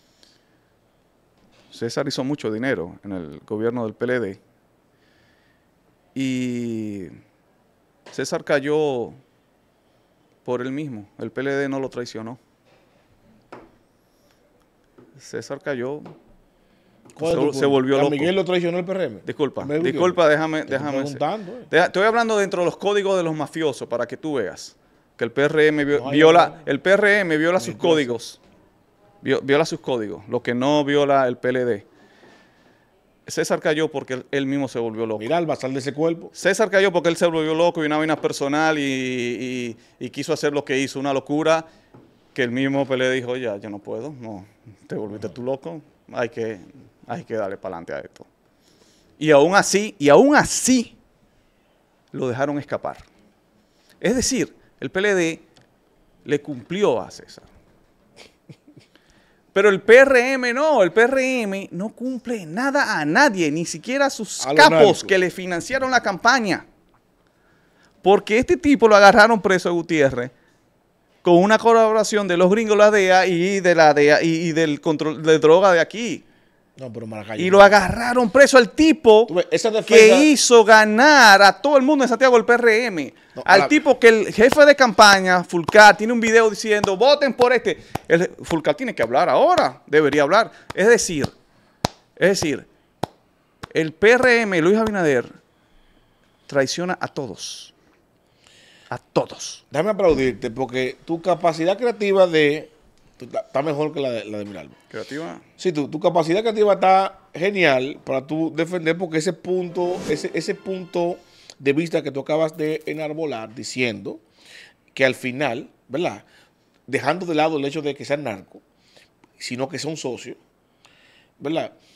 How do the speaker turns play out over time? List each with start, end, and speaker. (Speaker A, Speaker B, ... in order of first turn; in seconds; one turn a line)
Speaker A: 1.7-4.4
Speaker A: 6.1-7.1
Speaker A: 8.1-9.2
Speaker A: 10.4-12.4
Speaker A: 15.2-16.1
Speaker B: 17.1-21.7
Speaker A: 17.2-18.3
Speaker A: 19.3-28.4
Speaker B: 26.0-26.6
Speaker B: 27.6-28.1
Speaker A: 29.2-31.9
Speaker A: 33.2-35.3
Speaker B: 35.2-36.3
Speaker A: 36.4-41.7
Speaker A: 42.3-48.3
Speaker A: 49.2-51.0
Speaker A: 52.1-53.0
Speaker A: 54.0-55.5
Speaker A: 56.2-57.5
Speaker A: 59.5-66.6
Speaker B: 64.4-65.1
Speaker A: 68.0-70.3
Speaker A: 71.2-76.2
Speaker B: 76.8-77.8
Speaker A: 77.4-79.3
Speaker B: 79.3-80.3
Speaker A: 79.9-91.3
Speaker B: 83.4-83.8
Speaker A: 92.2-92.7
Speaker A: 93.7-95.3
Speaker A: 96.5-97.7
Speaker A: 98.9-99.6
Speaker B: 99.7-104.8
Speaker A: 104.9-105.4
Speaker B: 105.6-114.2
Speaker B: 114.9-116.2
Speaker B: 116.9-118.6
Speaker B: 119.4-120.4
Speaker B: 121.4-121.7